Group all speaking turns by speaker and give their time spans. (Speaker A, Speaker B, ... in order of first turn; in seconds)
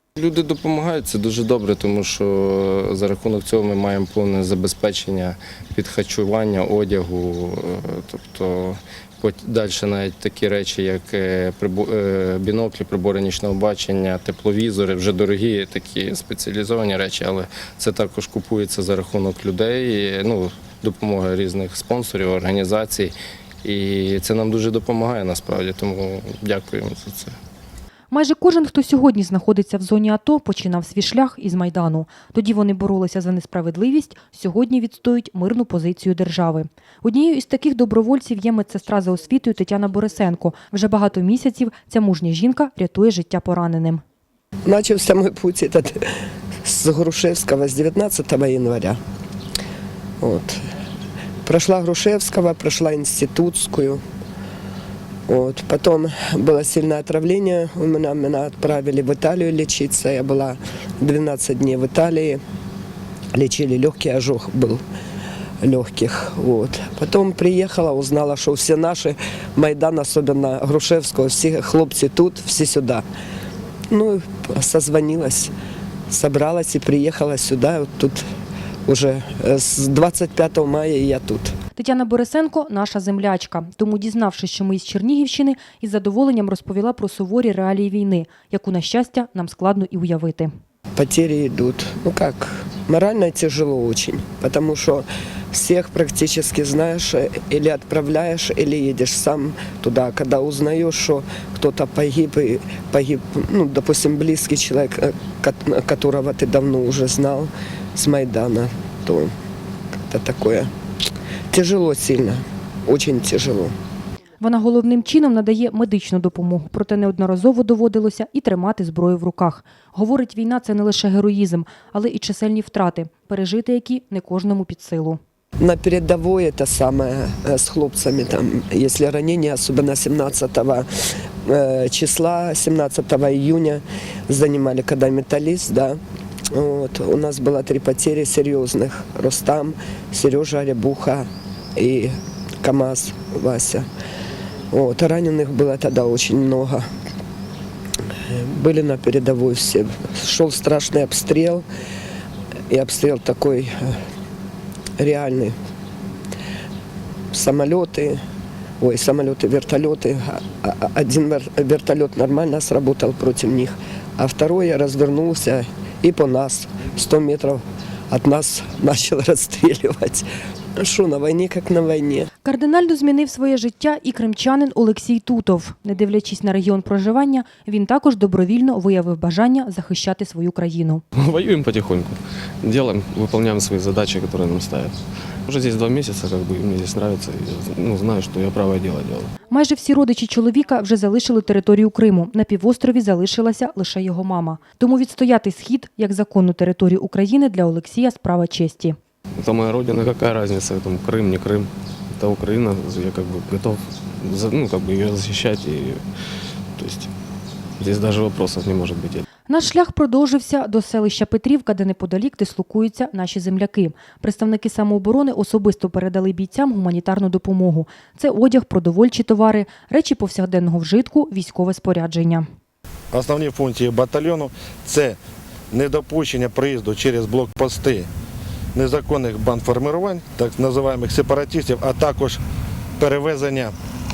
Speaker A: 0.1-23.1, 23.6-27.3
Speaker B: 28.1-44.0, 81.8-90.5, 114.4-125.2, 172.4-181.0, 189.5-199.0, 209.5-222.4
Speaker C: 44.6-46.1, 46.6-49.0, 50.2-50.6, 51.4-54.0, 55.3-62.4, 63.3-64.8, 65.6-73.0, 73.9-75.5, 76.1-78.2, 78.8-81.5, 91.0-109.3, 110.0-110.7, 111.5-113.7, 125.6-130.9, 131.4-136.0, 136.5-143.8, 144.7-146.9, 148.2-151.7, 152.7-154.0, 155.0-155.5, 157.3-158.2, 158.8-170.2, 170.8-172.3
Speaker D: 181.1-189.3, 199.4-206.0, 206.8-207.1, 207.8-209.2
Speaker E: 223.1-225.2, 225.7-228.1, 228.7-232.4, 233.0-233.7